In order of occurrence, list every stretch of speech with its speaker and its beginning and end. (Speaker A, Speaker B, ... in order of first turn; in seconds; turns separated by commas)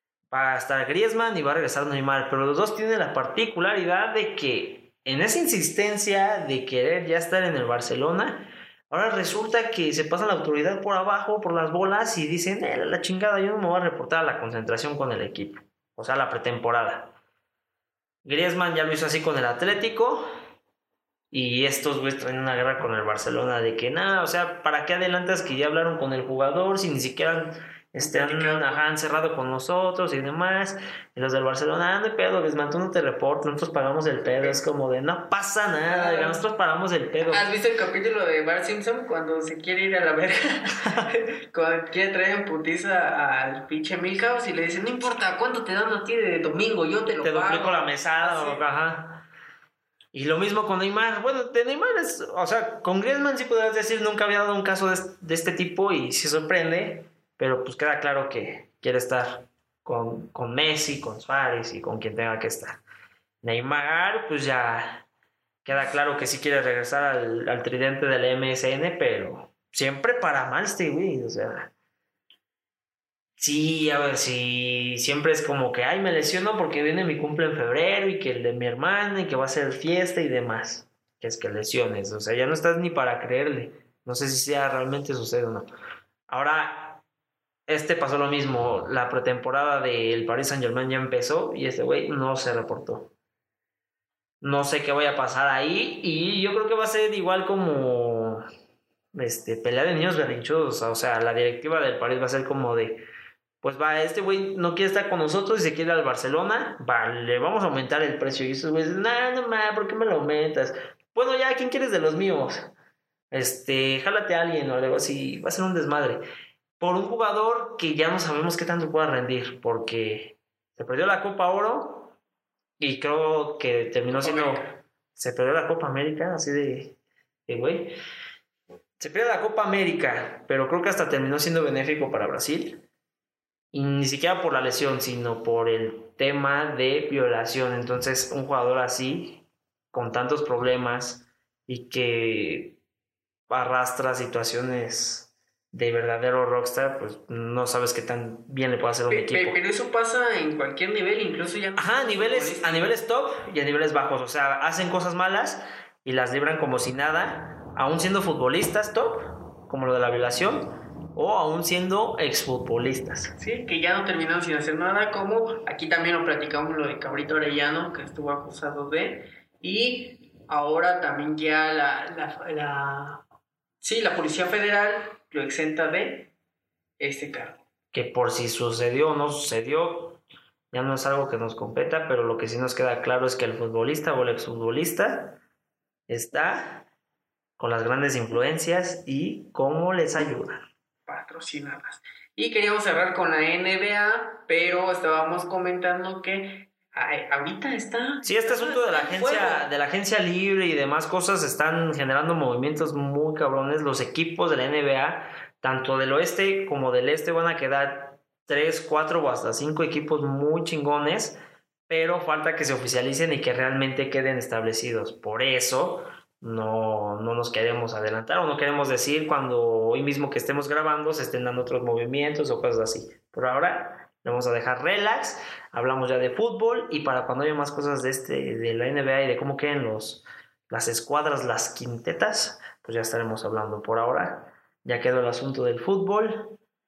Speaker A: 0.3-17.1, Speaker A: 18.2-20.3, Speaker A: 21.3-37.5, Speaker B: 28.0-28.8, Speaker B: 34.2-34.6, Speaker B: 35.8-36.4, Speaker B: 37.3-48.6, Speaker A: 47.2-49.2, Speaker A: 50.1-62.8, Speaker A: 63.4-65.0, Speaker A: 65.6-71.7, Speaker A: 73.4-85.7, Speaker A: 86.3-87.0, Speaker A: 87.7-93.1, Speaker A: 94.4-98.4, Speaker A: 99.1-103.0, Speaker A: 103.6-112.7, Speaker A: 113.3-116.2, Speaker A: 116.8-122.1, Speaker A: 122.8-124.6, Speaker B: 124.1-124.8, Speaker A: 125.2-127.9, Speaker A: 129.0-132.8, Speaker A: 133.7-142.8, Speaker A: 143.5-149.6, Speaker B: 149.1-152.9, Speaker A: 151.8-163.3, Speaker B: 163.4-173.2, Speaker B: 173.8-176.3, Speaker B: 177.0-177.6, Speaker A: 177.9-180.2, Speaker A: 180.7-185.4, Speaker A: 186.1-186.8, Speaker A: 187.6-190.6, Speaker B: 191.1-199.7, Speaker A: 198.2-211.4, Speaker A: 211.9-236.6